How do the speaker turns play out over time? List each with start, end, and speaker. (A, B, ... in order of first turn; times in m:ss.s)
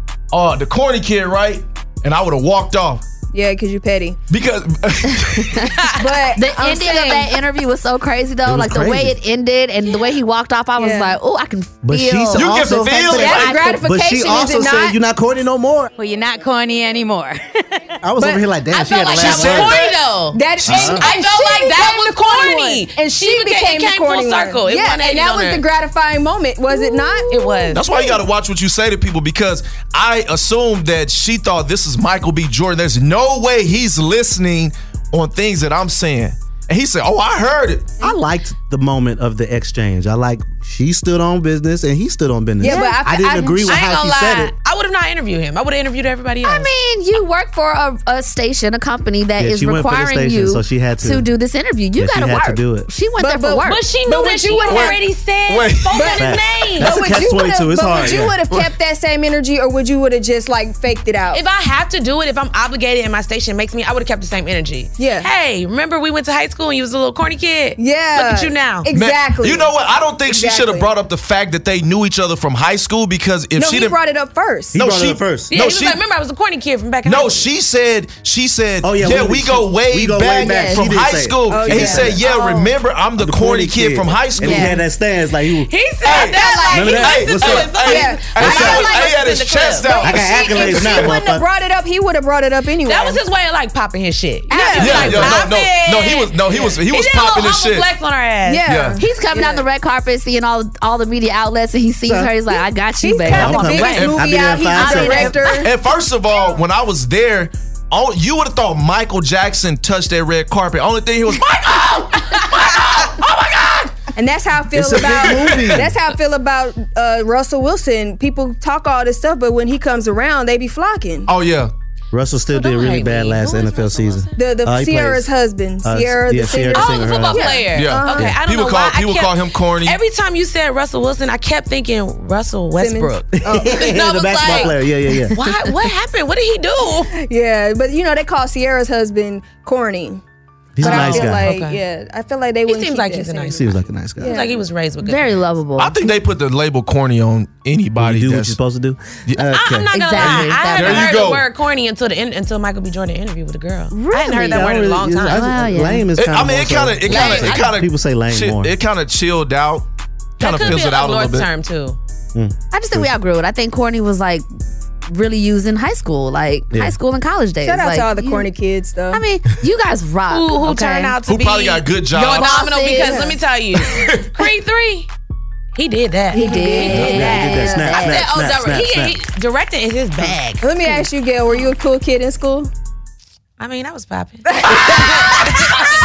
0:00.3-0:03.0 A
0:03.3-0:04.2 B
0:04.3-0:05.8 A
0:05.2-0:05.7 C
0:06.0-0:07.4 B
0:06.4-0:12.6 C
0:08.5-0:09.2 D
0:10.8-0:11.2 B
0:11.8-0:15.9 D
0:12.4-0:13.7 A
0:13.0-0:15.0 B
0:16.0-0:18.0 E
0:18.0-0:19.8 D
0:18.2-0:18.4 B
0:18.7-0:25.6 F
0:19.1-0:28.2 B
0:20.6-0:21.0 D
0:27.3-0:27.8 F
0:27.7-0:38.0 A
0:38.0-0:44.5 D
0:42.6-0:43.9 B
0:42.6-0:43.0 C
0:43.7-0:46.7 F
0:46.4-0:53.9 C
0:49.4-0:51.3 D
0:52.0-0:52.9 D
0:53.2-0:55.1 B
0:53.6-0:57.0 F
0:54.7-0:56.2 A
0:55.9-1:01.4 B
0:56.2-0:58.4 D
1:01.3-1:08.9 F
1:05.0-1:05.3 B
1:07.8-1:09.7 B
1:08.9-1:14.0 A
1:10.3-1:10.9 B
1:13.6-1:14.8 B
1:14.7-1:15.5 D
1:14.8-1:16.0 A
1:15.5-1:17.5 F
1:17.0-1:24.8 A
1:18.8-1:22.2 D
1:20.4-1:20.8 C
1:21.5-1:22.7 B
1:23.2-1:25.7 D
1:24.4-1:24.8 C
1:25.7-1:30.1 F
1:26.0-1:31.2 A
1:26.4-1:26.8 B
1:26.7-1:27.8 D
1:27.8-1:29.1 B
1:28.4-1:28.9 D
1:29.8-1:33.2 B
1:30.0-1:31.5 D
1:32.9-1:38.7 F
1:34.5-1:35.2 C
1:34.5-1:35.4 B
1:34.8-1:37.9 A
1:38.4-1:39.6 B
1:38.7-1:39.0 A
1:39.0-1:44.1 C
1:42.0-1:42.3 D
1:43.0-1:45.7 B
1:43.3-1:45.4 D
1:43.9-1:44.3 A
1:44.8-1:45.4 C
1:45.4-1:53.9 A
1:54.2-2:01.3 B
1:54.7-1:55.9 D
1:55.0-1:55.8 A
2:01.3-2:01.7 A
2:02.1-2:05.3 D
2:02.5-2:04.4 F
2:04.4-2:08.3 B
2:05.8-2:07.6 D
2:06.7-2:17.1 F
2:07.7-2:10.0 A
2:12.8-2:14.7 B
2:13.4-2:15.4 D
2:17.2-2:20.2 B
2:20.8-2:21.5 D
2:20.8-2:24.6 B
2:20.8-2:21.8 F
2:22.7-2:25.4 F
2:23.5-2:24.4 D
2:25.0-2:26.0 C
2:25.8-2:28.6 A
2:28.0-2:30.5 D
2:29.5-2:35.6 F
2:29.9-2:31.2 C
2:30.2-2:31.5 A
2:33.9-2:34.7 C
2:34.4-2:38.7 D
2:35.3-2:36.1 C
2:36.2-2:39.9 A
2:37.1-2:37.7 F
2:40.4-2:41.5 A
2:40.4-2:42.0 F
2:42.3-2:43.1 D
2:42.7-2:44.5 C
2:45.1-2:48.5 C
2:47.6-2:49.2 B
2:49.1-2:51.2 C
2:50.3-2:55.1 F
2:51.3-2:52.7 A
2:52.2-2:53.3 C
2:52.9-2:53.4 B
2:53.9-2:54.3 A
2:55.7-3:00.7 F
2:56.3-2:58.0 B
2:56.3-2:58.2 C
2:57.0-2:59.2 D
3:00.6-3:02.7 B
3:03.6-3:05.7 F
3:04.6-3:05.7 B